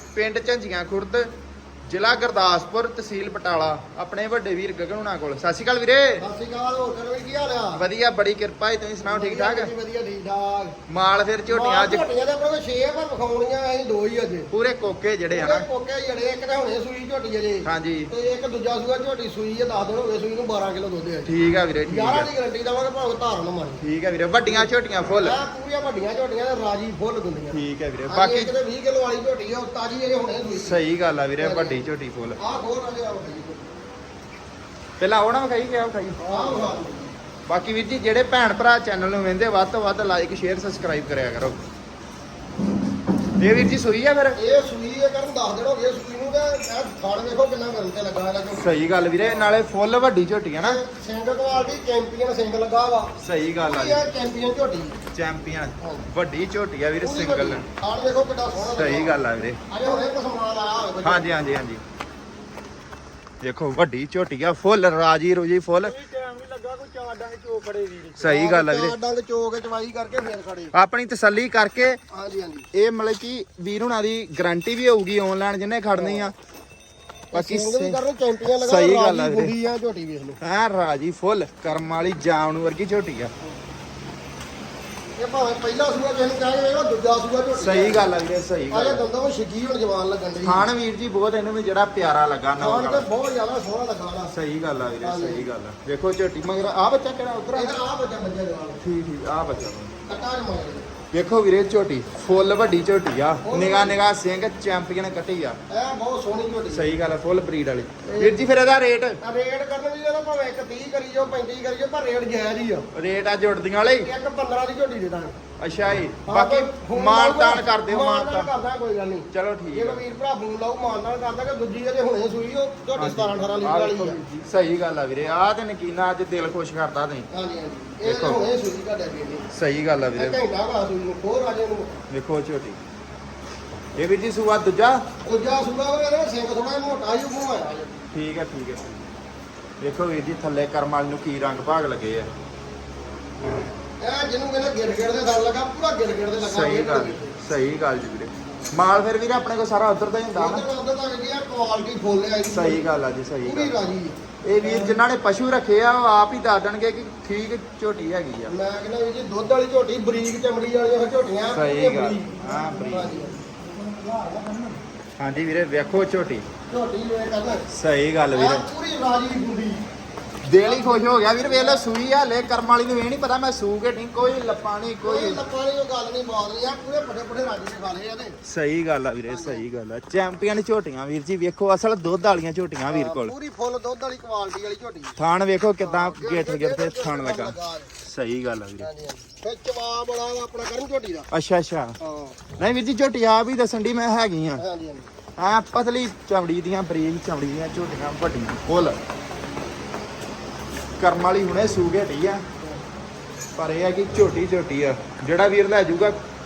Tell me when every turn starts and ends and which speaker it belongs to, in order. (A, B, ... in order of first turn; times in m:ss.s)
0:00.1-0:01.3 A
0:01.9-0:06.2 A
0:06.2-0:07.8 B
0:07.7-0:09.7 A
0:09.0-0:10.8 B
0:10.9-0:12.0 A
0:11.5-0:14.5 B
0:14.5-0:15.6 A
0:15.3-0:21.3 B
0:17.6-0:18.1 A
0:21.2-0:22.3 A
0:21.9-0:23.8 B
0:23.8-0:25.4 A
0:24.4-0:30.8 B
0:27.5-0:28.5 A
0:30.6-0:32.4 A
0:31.4-0:31.8 B
0:32.4-0:33.7 B
0:35.0-0:36.8 A
0:36.2-0:37.1 B
0:37.5-0:41.6 A
0:43.4-0:44.4 A
0:44.4-0:49.5 B
0:48.5-0:50.8 A
0:50.6-0:55.0 B
0:53.2-0:54.0 A
0:55.1-0:57.6 A
0:57.0-1:01.3 B
0:58.6-0:59.6 A
1:01.0-1:01.8 A
1:03.4-1:06.0 A
1:05.8-1:10.7 B
1:08.2-1:08.9 A
1:10.7-1:12.0 A
1:12.1-1:12.7 B
1:12.7-1:16.3 A
1:16.0-1:16.3 B
1:17.3-1:20.4 B
1:17.3-1:18.0 A
1:18.6-1:19.5 A
1:20.4-1:23.3 A
1:25.2-1:28.1 B
1:27.5-1:29.0 A
1:28.7-1:30.6 B
1:30.4-1:33.1 A
1:32.6-1:34.3 B
1:34.3-1:37.8 A
1:35.0-1:35.5 B
1:37.5-1:38.8 B
1:38.8-1:39.9 A
1:40.1-1:40.9 B
1:41.1-1:45.6 A
1:43.4-1:44.0 B
1:45.7-1:46.9 B
1:46.7-1:49.2 A
1:48.0-1:48.5 B
1:49.2-1:52.9 B
1:52.9-1:54.1 A
1:54.0-1:55.3 B
1:55.6-1:58.5 A
1:56.2-2:04.3 B
1:59.3-2:00.0 A
2:02.9-2:07.3 A
2:07.3-2:09.4 B
2:08.0-2:08.4 A
2:09.5-2:10.4 A
2:10.1-2:12.0 B
2:12.1-2:12.8 A
2:14.0-2:15.0 A
2:15.2-2:18.0 B
2:18.1-2:19.0 A
2:19.8-2:22.3 A
2:24.0-2:27.4 B
2:26.4-2:30.6 A
2:30.3-2:32.8 B
2:32.5-2:33.8 A
2:33.4-2:35.0 B
2:34.4-2:38.5 A
2:38.5-2:44.8 B
2:41.5-2:43.2 A
2:45.2-2:46.4 A
2:46.7-2:47.7 B
2:47.7-2:48.7 A
2:48.3-2:49.8 B
2:50.4-2:55.4 A
2:50.6-2:51.8 B
2:55.0-2:58.4 B
2:58.4-3:03.3 A
2:59.3-2:59.6 B
3:02.9-3:05.2 B
3:05.2-3:08.9 A
3:05.8-3:07.9 B
3:08.8-3:11.3 B
3:11.3-3:12.0 A
3:12.0-3:12.4 B
3:12.6-3:14.6 A
3:14.6-3:15.1 B
3:15.4-3:19.0 A
3:21.0-3:22.4 A
3:23.6-3:26.2 A